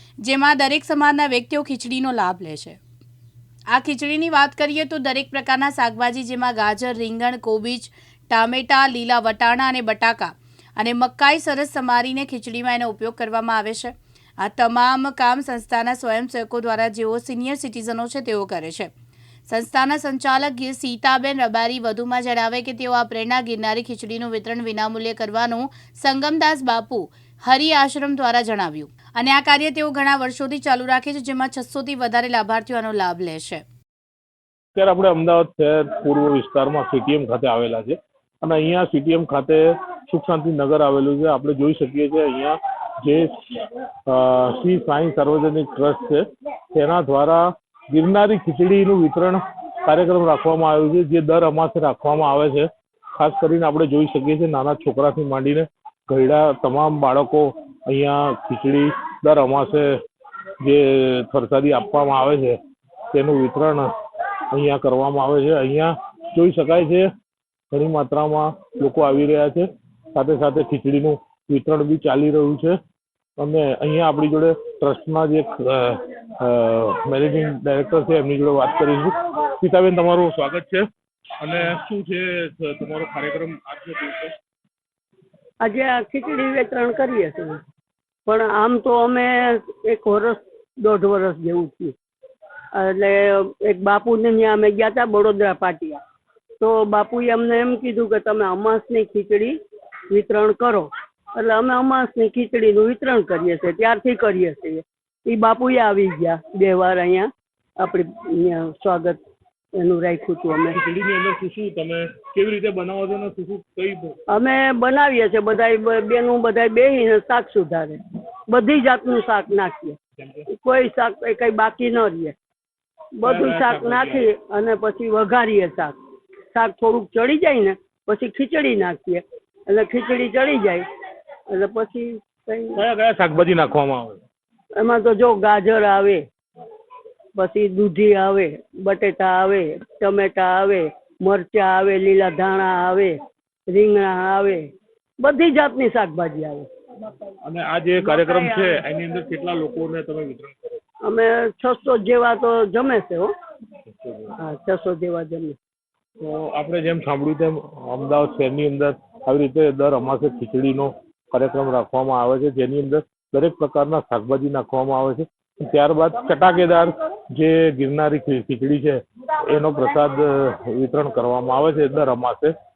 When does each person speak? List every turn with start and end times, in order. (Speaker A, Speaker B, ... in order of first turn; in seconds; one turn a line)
Speaker A: 0.2-2.8
Speaker A: 3.7-18.9
Speaker A: 19.5-33.6
Speaker B: 34.7-43.4
Speaker B: 44.1-59.9
Speaker B: 60.6-62.6
Speaker B: 63.1-63.9
Speaker B: 64.5-67.1
Speaker B: 67.7-72.8
Speaker B: 73.4-80.8
Speaker B: 81.4-84.3
Speaker C: 85.6-87.6
Speaker C: 88.3-91.9
Speaker C: 92.7-96.0
Speaker C: 96.6-99.6
Speaker C: 100.1-109.2
Speaker C: 109.8-110.8
Speaker B: 110.7-114.2
Speaker C: 114.3-120.0
Speaker B: 120.2-120.5
Speaker C: 120.5-122.3
Speaker C: 123.2-126.0
Speaker B: 123.2-124.3
Speaker C: 126.5-130.8
Speaker C: 131.5-132.8
Speaker B: 132.7-134.2
Speaker C: 134.8-136.2
Speaker C: 137.3-143.2
Speaker C: 143.7-144.7
Speaker C: 145.2-146.7
Speaker B: 147.4-150.8
Speaker C: 148.0-148.8
Speaker C: 151.0-153.3
Speaker B: 153.9-154.3
Speaker C: 154.4-155.6
Speaker B: 156.2-172.5